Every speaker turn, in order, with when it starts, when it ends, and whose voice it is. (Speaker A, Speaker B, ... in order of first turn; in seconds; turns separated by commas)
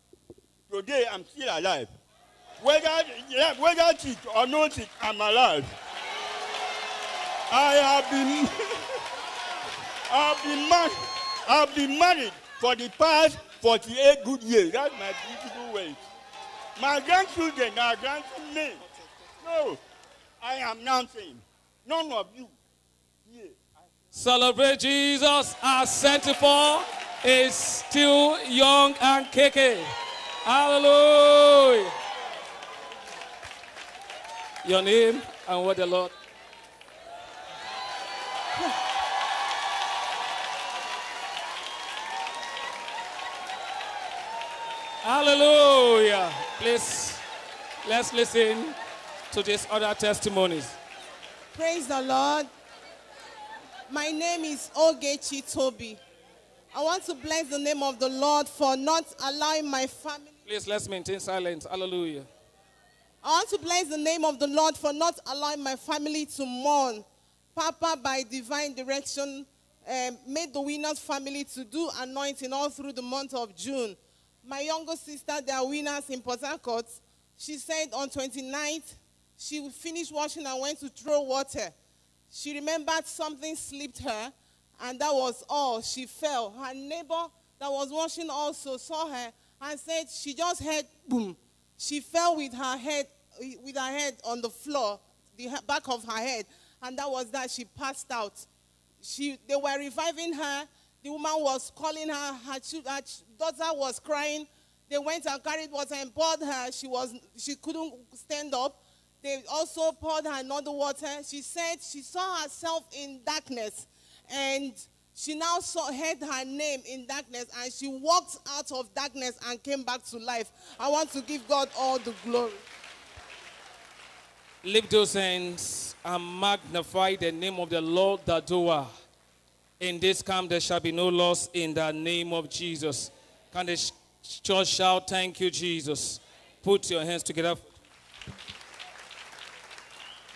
Speaker A: 0.7-1.9, Speaker A: 2.6-5.7, Speaker A: 7.5-9.0, Speaker A: 10.1-10.9, Speaker A: 11.4-16.0, Speaker A: 16.8-18.8, Speaker A: 19.4-19.8, Speaker A: 20.4-22.5, Speaker A: 23.2-23.6, Speaker B: 24.1-29.9, Speaker B: 30.4-31.9, Speaker B: 34.6-36.1, Speaker B: 45.0-47.2, Speaker B: 47.8-48.7, Speaker B: 49.3-50.8, Speaker C: 51.5-52.5, Speaker C: 53.9-56.0, Speaker C: 56.7-60.3, Speaker B: 60.5-62.3, Speaker C: 63.2-81.7, Speaker C: 82.3-98.5, Speaker C: 99.0-122.6, Speaker B: 124.6-128.9, Speaker B: 129.8-137.7